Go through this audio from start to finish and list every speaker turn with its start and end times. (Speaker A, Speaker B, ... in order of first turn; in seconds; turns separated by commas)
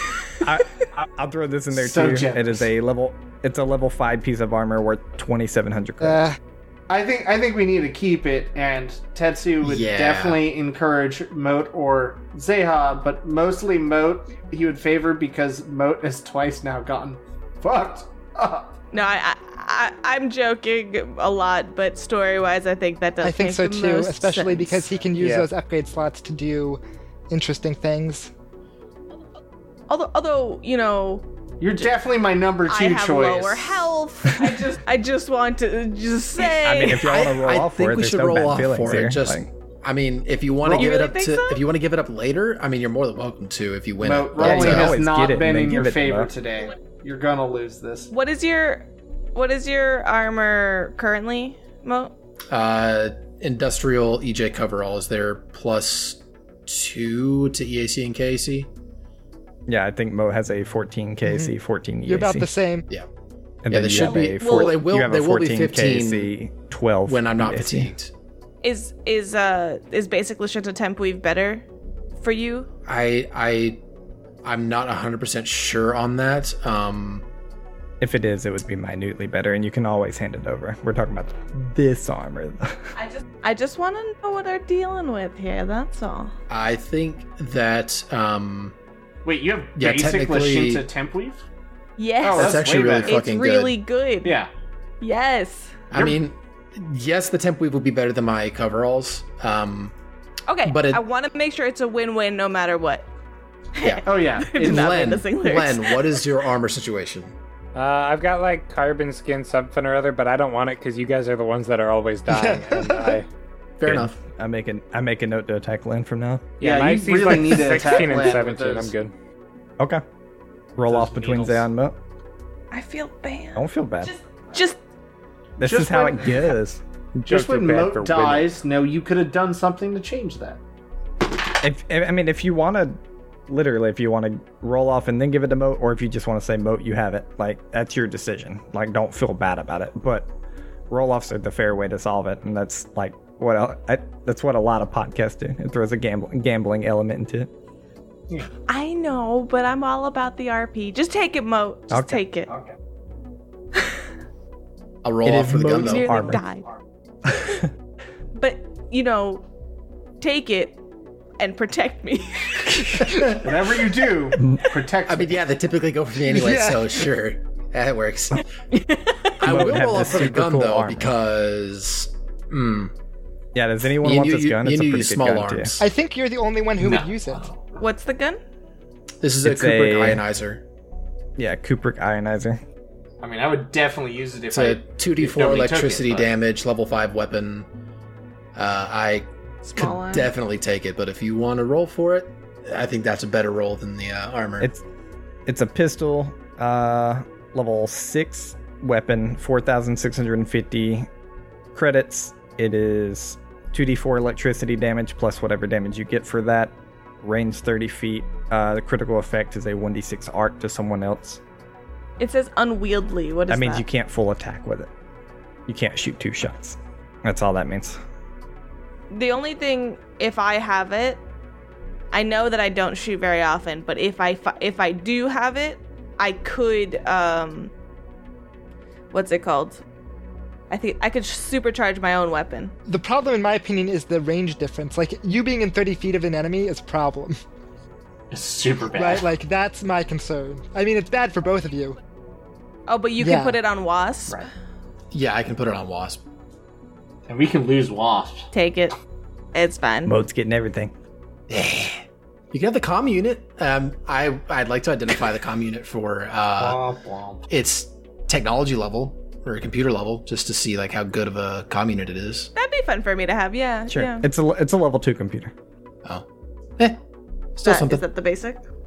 Speaker A: 0.4-6.2, Speaker B: 1.7-2.7, Speaker C: 6.0-6.4, Speaker B: 6.9-18.7, Speaker D: 9.6-10.4, Speaker E: 18.9-24.9, Speaker C: 23.2-28.3, Speaker F: 25.2-25.5, Speaker E: 29.9-31.3, Speaker B: 31.6-33.9, Speaker E: 32.7-37.0, Speaker A: 36.5-39.5, Speaker D: 37.0-45.0, Speaker B: 40.6-40.9, Speaker E: 40.7-41.6, Speaker B: 44.0-48.1, Speaker A: 44.4-46.3, Speaker E: 48.1-52.1, Speaker D: 52.5-58.7, Speaker A: 59.7-62.5, Speaker C: 61.2-61.5, Speaker C: 62.1-62.9, Speaker A: 63.7-67.9, Speaker D: 63.7-66.3, Speaker E: 64.0-64.8, Speaker D: 67.1-68.1, Speaker E: 68.6-71.6, Speaker E: 72.2-72.7, Speaker D: 72.9-73.8, Speaker D: 74.4-77.2, Speaker A: 78.0-82.9, Speaker E: 83.4-86.3, Speaker D: 86.5-88.8, Speaker B: 89.2-91.4, Speaker D: 89.8-90.8, Speaker E: 92.0-94.4, Speaker B: 92.3-93.3, Speaker D: 92.3-93.8, Speaker B: 94.2-94.5, Speaker E: 95.0-95.7, Speaker D: 95.9-99.9, Speaker B: 95.9-96.2, Speaker E: 100.5-103.1, Speaker D: 100.6-101.0, Speaker E: 103.8-106.2, Speaker D: 103.8-107.3, Speaker B: 104.0-104.9, Speaker F: 107.8-113.3, Speaker C: 112.3-113.2, Speaker D: 113.8-114.2, Speaker A: 113.8-116.5, Speaker F: 116.6-119.1, Speaker B: 116.6-118.9, Speaker A: 120.8-122.0, Speaker B: 120.8-121.7, Speaker E: 122.7-124.8, Speaker A: 123.6-124.1, Speaker A: 125.6-126.8, Speaker B: 125.6-126.5, Speaker F: 127.2-128.5, Speaker B: 127.3-130.6, Speaker A: 131.6-140.3, Speaker A: 140.9-147.5, Speaker E: 148.7-152.5, Speaker A: 151.9-152.7, Speaker D: 155.0-156.1, Speaker A: 155.2-156.4, Speaker E: 155.8-156.7, Speaker A: 157.3-157.7, Speaker E: 158.3-159.4, Speaker E: 160.2-160.8, Speaker E: 161.4-163.0, Speaker B: 163.4-165.3, Speaker D: 165.1-168.4, Speaker C: 166.3-167.1, Speaker E: 168.7-169.4, Speaker D: 169.4-172.9, Speaker A: 169.4-171.1, Speaker A: 173.6-175.8, Speaker D: 174.0-175.9, Speaker C: 175.8-177.4, Speaker B: 176.8-177.6, Speaker E: 177.8-178.4, Speaker D: 179.2-180.6, Speaker A: 179.4-180.2, Speaker A: 181.4-182.6, Speaker B: 183.2-186.3, Speaker D: 184.5-187.7, Speaker D: 188.6-194.7, Speaker E: 189.7-190.3, Speaker A: 195.5-201.1, Speaker A: 201.7-211.4, Speaker E: 212.2-213.8, Speaker A: 213.5-214.9, Speaker A: 215.7-218.0, Speaker E: 219.1-221.2, Speaker E: 222.1-227.7, Speaker E: 229.1-229.8, Speaker E: 230.7-232.7, Speaker C: 232.9-237.4, Speaker B: 238.3-239.3, Speaker C: 238.9-242.0, Speaker E: 242.9-244.5, Speaker C: 243.2-243.6, Speaker D: 245.1-246.2, Speaker B: 247.3-248.5, Speaker E: 248.5-249.0, Speaker E: 249.5-250.1, Speaker A: 250.1-250.9, Speaker D: 251.5-256.8, Speaker B: 256.6-257.4, Speaker D: 257.5-262.5, Speaker E: 262.6-264.3, Speaker A: 263.9-265.5, Speaker D: 267.6-268.0, Speaker E: 267.6-268.6